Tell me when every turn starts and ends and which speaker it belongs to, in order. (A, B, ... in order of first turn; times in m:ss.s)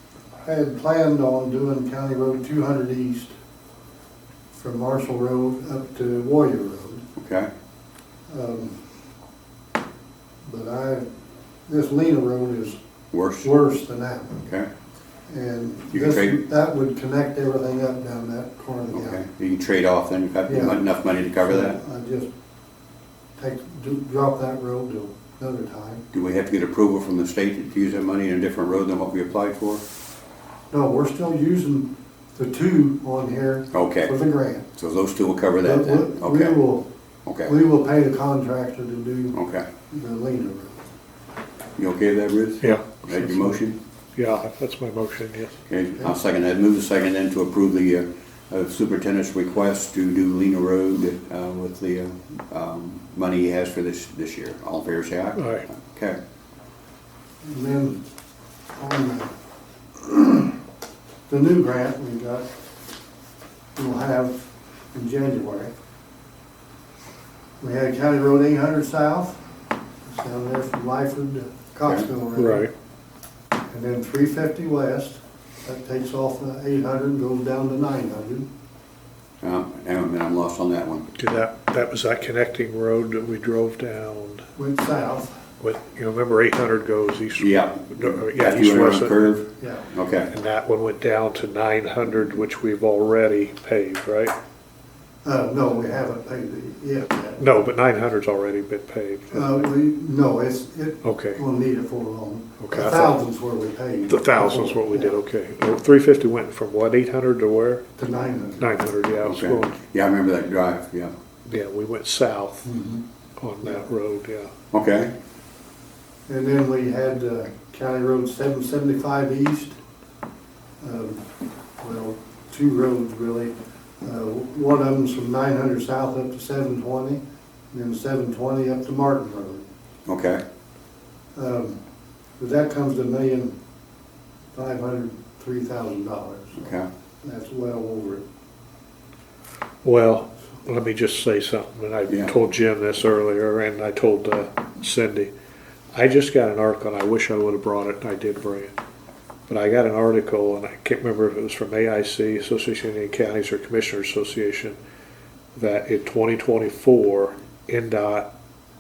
0:00.4-0:03.3 A
0:04.5-0:07.0 A
0:07.2-0:07.5 B
0:08.3-0:08.8 A
0:10.4-0:11.1 A
0:11.7-0:12.8 A
0:13.1-0:13.5 B
0:13.4-0:14.4 A
0:14.4-0:14.7 B
0:15.3-0:19.2 A
0:15.9-0:16.4 B
0:18.9-0:21.8 B
0:20.5-0:20.8 A
0:21.4-0:22.3 A
0:23.4-0:26.0 A
0:26.1-0:29.8 B
0:30.7-0:34.7 A
0:33.7-0:34.1 B
0:34.7-0:36.6 B
0:35.6-0:36.9 A
0:37.3-0:37.5 B
0:37.4-0:39.4 A
0:39.3-0:39.7 B
0:39.9-0:40.8 A
0:41.8-0:43.8 B
0:42.6-0:43.5 C
0:44.2-0:45.6 C
0:45.7-0:56.2 B
0:55.4-0:55.7 C
0:57.4-0:58.0 A
0:58.8-0:59.3 A
1:00.0-1:00.6 A
1:01.3-1:02.5 A
1:03.8-1:05.7 A
1:07.6-1:09.4 A
1:10.1-1:12.7 A
1:12.4-1:12.7 C
1:13.7-1:18.5 A
1:19.4-1:21.1 B
1:21.2-1:24.4 C
1:24.6-1:25.4 A
1:25.6-1:29.4 C
1:27.4-1:30.3 B
1:29.6-1:29.9 A
1:30.3-1:34.4 C
1:35.2-1:37.5 A
1:37.4-1:39.8 C
1:39.3-1:45.2 A
1:41.0-1:41.4 C
1:42.6-1:43.2 C
1:44.1-1:47.9 C
1:48.0-1:48.7 A
1:48.6-1:49.8 C
1:49.2-1:51.1 B
1:51.5-1:52.7 C
1:52.6-1:53.0 A
1:53.4-1:54.5 C
1:54.7-1:55.1 B
1:56.3-1:59.8 A
2:00.8-2:01.2 A
2:01.8-2:09.7 A
2:10.1-2:10.4 B
2:11.4-2:11.8 A
2:12.4-2:13.6 A
2:14.5-2:16.7 A
2:16.6-2:16.9 B
2:17.2-2:18.2 A
2:19.8-2:25.3 C
2:22.1-2:22.3 B
2:25.9-2:28.8 C
2:29.5-2:34.8 C
2:35.6-2:38.4 C